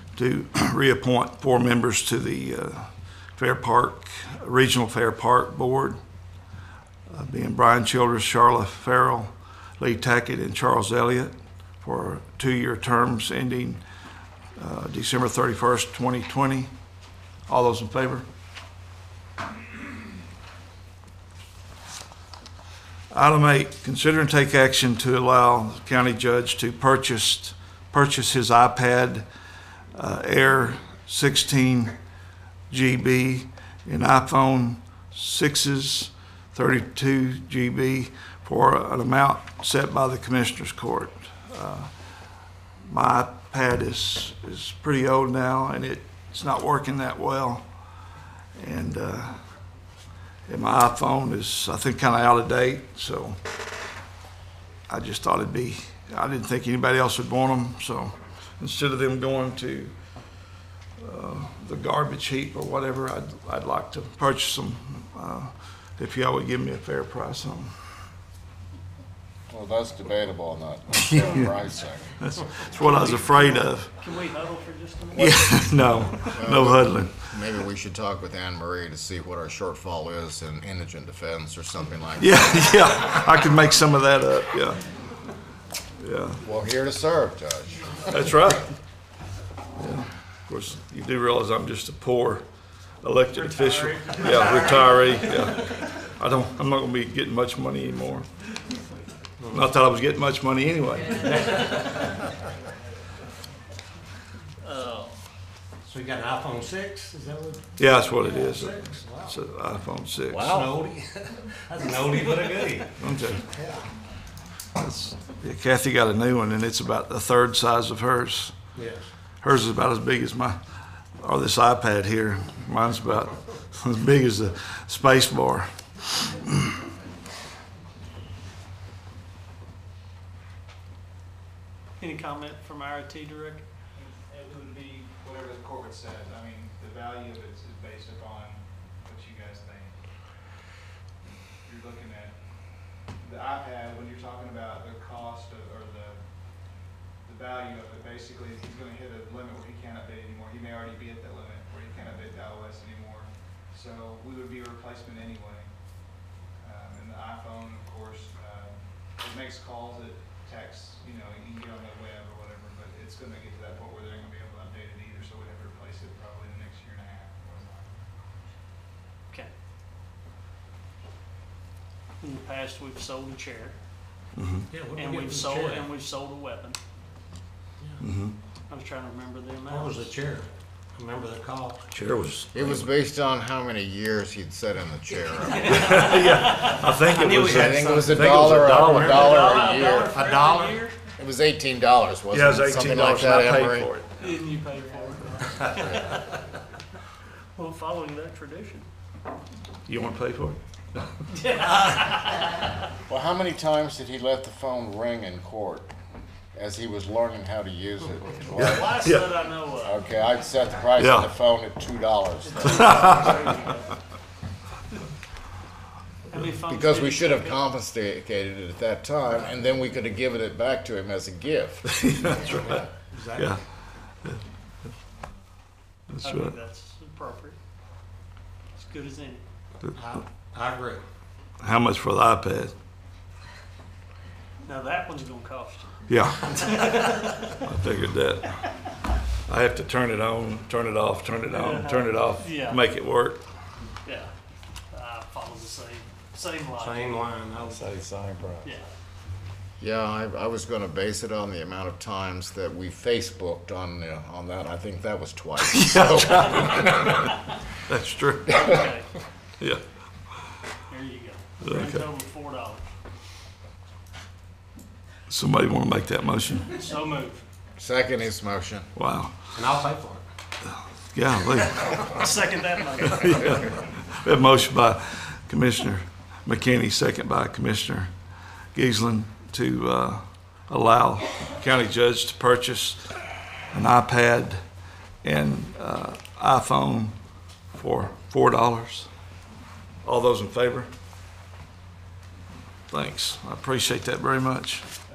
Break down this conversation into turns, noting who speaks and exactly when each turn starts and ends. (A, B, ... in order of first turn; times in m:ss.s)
0:00.2-0:06.0 A
0:07.1-0:13.8 A
0:14.6-0:16.7 A
0:17.5-0:18.3 A
0:23.1-0:29.3 A
0:30.0-0:31.9 A
0:32.7-0:41.9 A
0:42.9-0:47.6 A
0:48.6-0:49.4 A
0:50.5-0:53.4 A
0:54.9-0:59.9 A
1:01.0-1:07.7 A
1:09.5-1:13.2 B
1:12.2-1:13.9 A
1:12.8-1:15.6 C
1:15.1-1:15.7 B
1:15.2-1:17.3 A
1:16.2-1:23.0 B
1:22.2-1:24.8 A
1:26.0-1:26.4 A
1:26.4-1:28.4 B
1:28.1-1:28.7 A
1:29.8-1:32.4 A
1:33.0-1:38.3 A
1:33.4-1:35.6 C
1:39.4-1:39.7 D
1:39.5-1:41.6 A
1:41.3-1:42.1 D
1:44.6-1:45.2 C
1:45.8-1:49.4 D
1:47.8-1:50.6 A
1:50.3-1:50.7 B
1:50.4-1:52.9 D
1:53.0-1:53.5 A
1:53.5-1:53.9 D
1:54.8-1:58.6 A
1:58.8-1:59.1 D
1:59.4-2:00.6 A
2:01.2-2:06.6 A
2:12.0-2:13.7 C
2:14.0-2:20.0 E
2:21.6-2:22.4 E
2:23.1-2:48.0 E
2:52.2-2:53.8 C
2:54.4-2:54.7 A
2:54.7-2:55.9 D
2:54.9-2:56.8 C
2:58.0-2:58.4 A
2:58.7-3:00.1 C
2:59.7-3:01.8 D
3:01.9-3:02.9 A
3:02.5-3:06.1 B
3:05.4-3:07.3 C
3:05.6-3:09.6 A
3:07.2-3:09.3 D
3:07.4-3:10.2 B
3:09.0-3:11.0 C
3:09.9-3:10.9 D
3:11.2-3:13.9 B
3:12.3-3:14.1 A
3:14.2-3:16.4 C
3:17.6-3:18.9 C
3:19.9-3:20.6 A
3:21.3-3:22.7 C
3:23.1-3:25.9 B
3:26.5-3:29.1 B
3:28.5-3:30.0 C
3:28.6-3:29.3 A
3:29.8-3:33.5 B
3:31.0-3:31.3 A
3:32.4-3:34.0 C
3:36.3-3:37.6 C
3:36.7-3:42.2 B
3:41.9-3:43.6 A
3:42.6-3:43.6 D
3:46.1-3:46.6 A
3:46.2-3:47.6 C
3:48.8-3:49.4 C
3:49.9-3:51.0 D
3:51.6-3:52.7 A
3:54.6-3:55.9 C
3:56.1-3:56.8 A
3:56.5-3:57.6 C
3:57.5-3:58.6 A
3:59.5-4:03.4 A
4:01.5-4:02.8 C
4:04.0-4:04.3 C
4:04.9-4:07.3 C
4:06.8-4:08.2 D
4:07.8-4:08.7 B
4:09.8-4:17.3 B
4:15.7-4:17.3 A
4:17.9-4:18.8 A
4:18.5-4:19.1 C
4:20.9-4:22.9 C
4:21.6-4:22.1 A
4:25.3-4:26.7 A
4:26.7-4:27.4 C
4:27.8-4:28.9 B
4:28.9-4:29.4 A
4:29.5-4:30.2 D
4:31.1-4:32.1 A
4:31.8-4:33.7 C
4:33.2-4:38.1 A
4:38.7-4:43.1 A
4:43.7-4:44.6 A
4:45.2-4:47.2 A
4:47.7-4:49.1 A
4:50.0-4:50.9 A
4:52.9-4:54.8 A